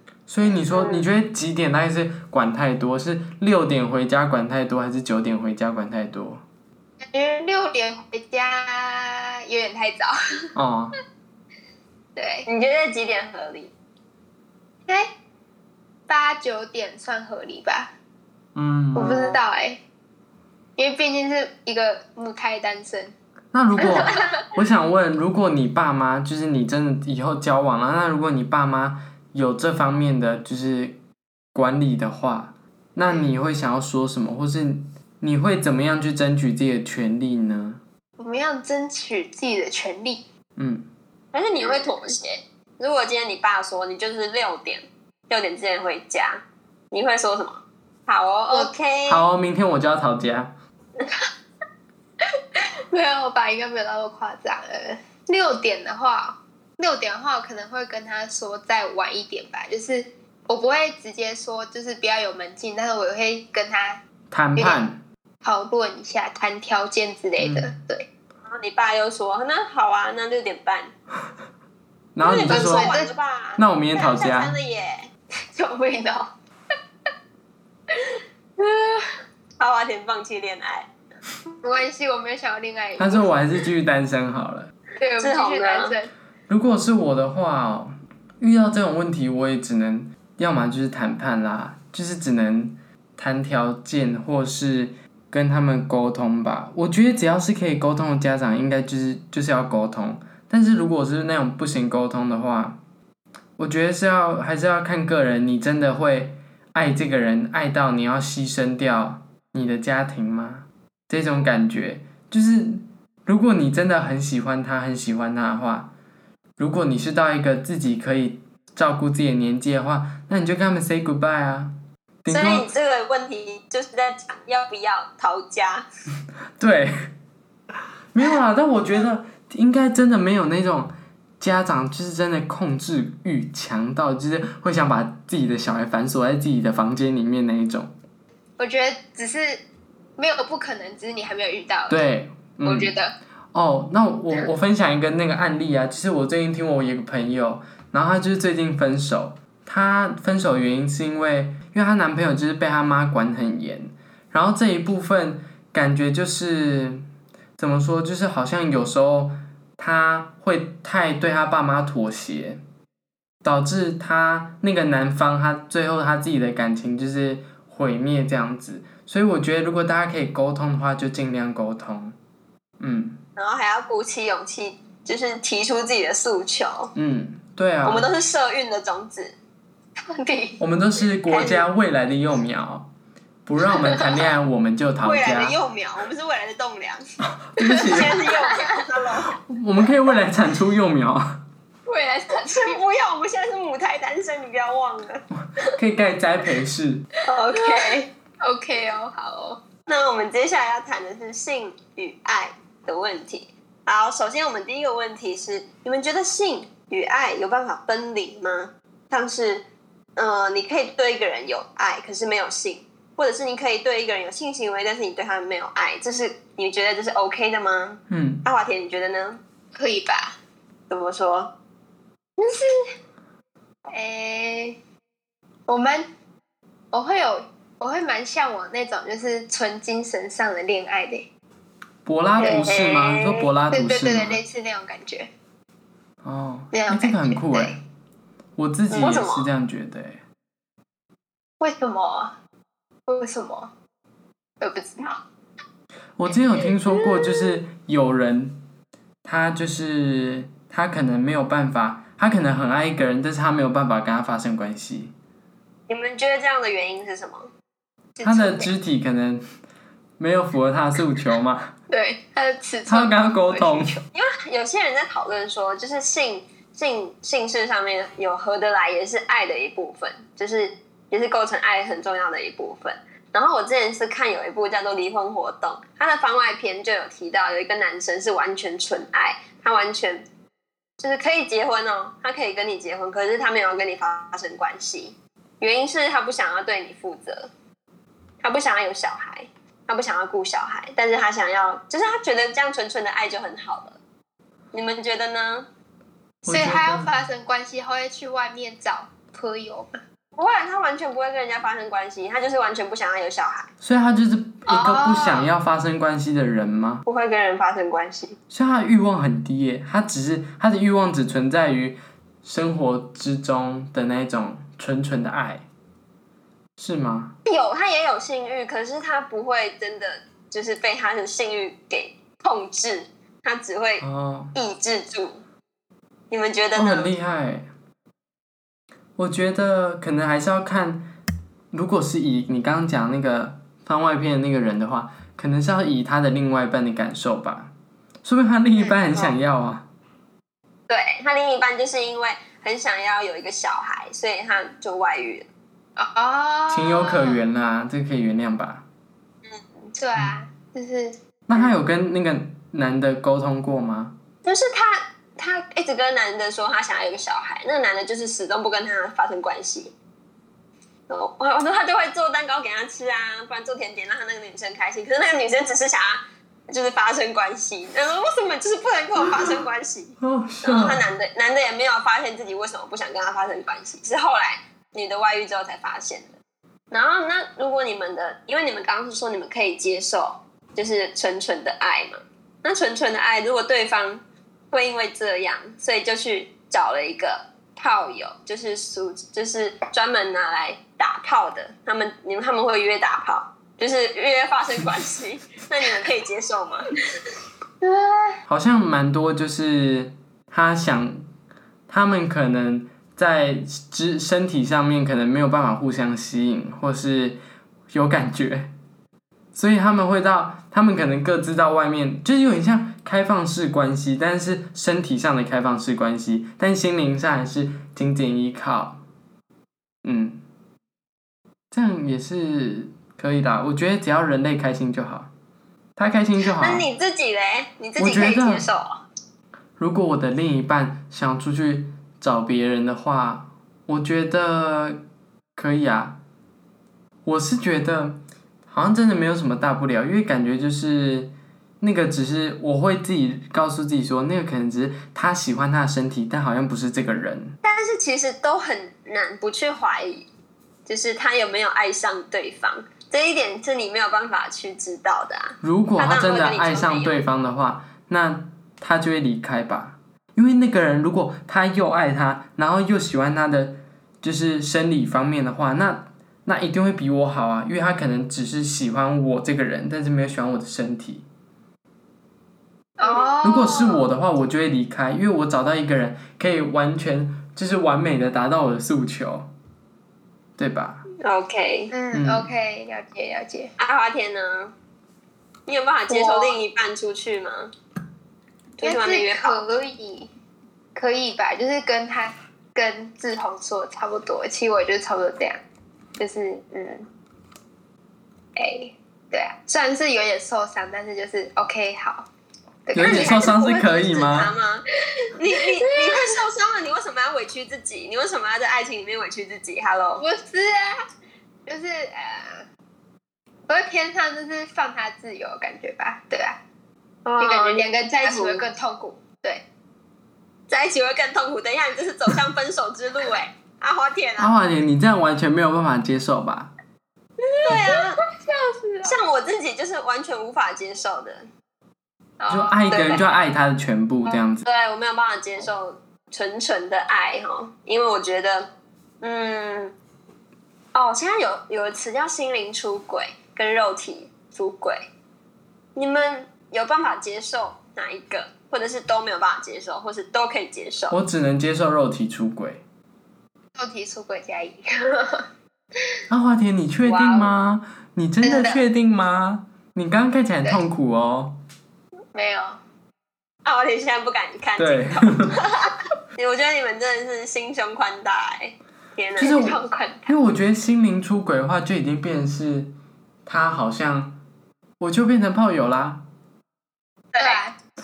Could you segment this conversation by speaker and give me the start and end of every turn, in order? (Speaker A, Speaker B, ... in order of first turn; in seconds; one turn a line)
Speaker A: 0.3-6.4
Speaker B: 0.7-1.1
Speaker C: 7.0-10.1
Speaker A: 10.5-10.9
Speaker C: 12.2-12.5
Speaker B: 12.4-13.7
Speaker C: 16.1-17.9
Speaker A: 18.5-19.1
Speaker C: 18.9-19.8
Speaker B: 19.0-19.4
Speaker C: 20.8-23.1
Speaker A: 23.5-31.0
Speaker C: 23.8-24.3
Speaker A: 31.5-37.8
Speaker C: 38.2-40.2
Speaker A: 40.6-40.9
Speaker B: 41.3-49.2
Speaker A: 49.1-50.5
Speaker C: 52.5-64.0
Speaker A: 64.3-65.0
Speaker C: 64.5-64.8
Speaker C: 65.4-68.1
Speaker A: 67.4-67.7
Speaker B: 68.5-70.9
Speaker A: 72.1-72.9
Speaker B: 72.2-75.1
Speaker C: 72.5-73.1
Speaker A: 73.6-74.5
Speaker C: 75.5-76.3
Speaker C: 78.6-79.1
Speaker B: 79.6-80.9
Speaker C: 81.6-83.3
Speaker A: 83.0-84.7
Speaker C: 85.0-86.1
Speaker B: 85.2-85.9
Speaker A: 86.5-102.8
Speaker A: 103.6-115.9
Speaker A: 116.6-122.7
Speaker B: 122.3-125.8
Speaker A: 126.6-126.9
Speaker A: 128.1-137.9
Speaker C: 138.6-139.6
Speaker C: 140.2-142.1
Speaker A: 141.9-142.9
Speaker C: 142.6-143.1
Speaker A: 143.5-157.0
Speaker A: 157.6-162.6
Speaker A: 163.4-172.2
Speaker A: 172.8-173.2
Speaker B: 173.3-176.9
Speaker A: 176.9-178.1
Speaker B: 177.8-179.3
Speaker C: 180.1-180.6
Speaker A: 180.6-182.9
Speaker B: 181.2-181.7
Speaker A: 183.4-185.6
Speaker C: 183.8-184.1
Speaker B: 185.0-187.0
Speaker A: 187.4-188.3
Speaker C: 187.6-188.6
Speaker B: 187.8-189.3
Speaker A: 189.3-191.4
Speaker C: 191.9-192.8
Speaker B: 192.5-195.2
Speaker A: 195.3-197.1
Speaker B: 197.3-198.1
Speaker C: 198.4-199.6
Speaker B: 199.8-209.6
Speaker B: 210.2-219.4
Speaker A: 218.1-218.4
Speaker C: 219.7-220.3
Speaker B: 220.9-221.5
Speaker C: 222.4-222.7
Speaker C: 223.9-224.8
Speaker C: 225.7-226.1
Speaker C: 226.9-231.3
Speaker A: 232.0-234.4
Speaker B: 232.4-233.5
Speaker C: 233.7-235.3
Speaker A: 236.2-237.8
Speaker C: 236.7-237.8
Speaker A: 238.6-240.2
Speaker B: 238.9-239.5
Speaker C: 241.6-242.3
Speaker C: 243.1-243.7
Speaker C: 244.6-245.2
Speaker A: 246.2-248.6
Speaker A: 249.2-255.1
Speaker B: 255.9-257.5
Speaker C: 258.1-258.7
Speaker A: 258.2-259.4
Speaker A: 260.2-261.7
Speaker C: 261.9-264.0
Speaker A: 262.9-264.0
Speaker B: 264.1-280.2
Speaker B: 281.0-287.5
Speaker B: 288.4-294.0
Speaker B: 294.7-295.6
Speaker A: 296.4-297.1
Speaker C: 296.4-299.9
Speaker B: 300.3-303.7
Speaker A: 303.8-307.0
Speaker C: 304.7-305.5
Speaker B: 307.1-308.4
Speaker A: 308.5-315.6
Speaker A: 316.8-317.3
Speaker B: 317.4-325.4
Speaker A: 324.0-324.5
Speaker B: 326.3-327.1
Speaker A: 326.7-327.7
Speaker A: 329.2-331.1
Speaker A: 331.7-337.7
Speaker A: 338.2-339.9
Speaker B: 340.9-345.5
Speaker C: 346.0-347.4
Speaker A: 346.7-348.9
Speaker B: 349.4-349.9
Speaker C: 349.9-351.1
Speaker A: 351.5-354.1
Speaker B: 354.4-359.9
Speaker B: 361.1-376.3
Speaker A: 370.2-371.0
Speaker B: 376.9-396.9
Speaker C: 397.8-398.4
Speaker A: 398.5-401.2
Speaker A: 401.9-407.4
Speaker A: 407.9-408.7
Speaker A: 409.5-419.0
Speaker A: 420.0-420.4
Speaker A: 421.7-425.3
Speaker A: 425.9-426.9
Speaker B: 426.6-429.0
Speaker A: 428.0-428.7
Speaker A: 429.8-435.0
Speaker A: 435.6-436.2
Speaker A: 437.2-447.6
Speaker B: 447.6-450.3
Speaker B: 450.9-457.2
Speaker A: 455.6-471.2
Speaker C: 473.0-474.1
Speaker B: 473.0-473.3
Speaker A: 473.4-479.5
Speaker A: 480.6-481.0
Speaker B: 481.2-481.9
Speaker C: 481.9-483.7
Speaker A: 482.1-482.5
Speaker B: 483.8-484.7
Speaker B: 485.7-487.7
Speaker C: 486.1-486.6
Speaker B: 488.8-489.6
Speaker C: 488.8-490.3
Speaker C: 490.9-495.6
Speaker C: 496.2-497.1
Speaker C: 498.6-502.3
Speaker C: 502.9-503.7
Speaker A: 502.9-504.5
Speaker B: 502.9-504.8
Speaker B: 505.4-510.2
Speaker C: 505.9-506.1
Speaker C: 510.2-510.9
Speaker C: 511.6-512.6
Speaker C: 513.7-516.6
Speaker B: 517.2-518.6
Speaker C: 517.4-519.6
Speaker B: 520.7-524.5
Speaker A: 524.4-526.7
Speaker C: 527.4-529.2
Speaker B: 527.6-528.2
Speaker B: 529.0-531.5
Speaker C: 532.4-533.2
Speaker A: 532.5-534.6
Speaker B: 532.9-533.2
Speaker B: 534.6-538.7
Speaker B: 539.2-539.9
Speaker B: 540.9-545.1
Speaker B: 546.0-551.2
Speaker A: 551.1-552.8
Speaker C: 553.7-555.4
Speaker A: 556.3-561.5
Speaker B: 557.0-557.5
Speaker C: 558.4-558.8
Speaker C: 562.3-562.8
Speaker B: 563.6-569.6
Speaker A: 564.8-565.6
Speaker A: 569.4-572.9
Speaker C: 569.4-570.4
Speaker A: 573.5-574.4
Speaker A: 575.0-576.2
Speaker B: 577.3-577.6
Speaker C: 577.4-577.7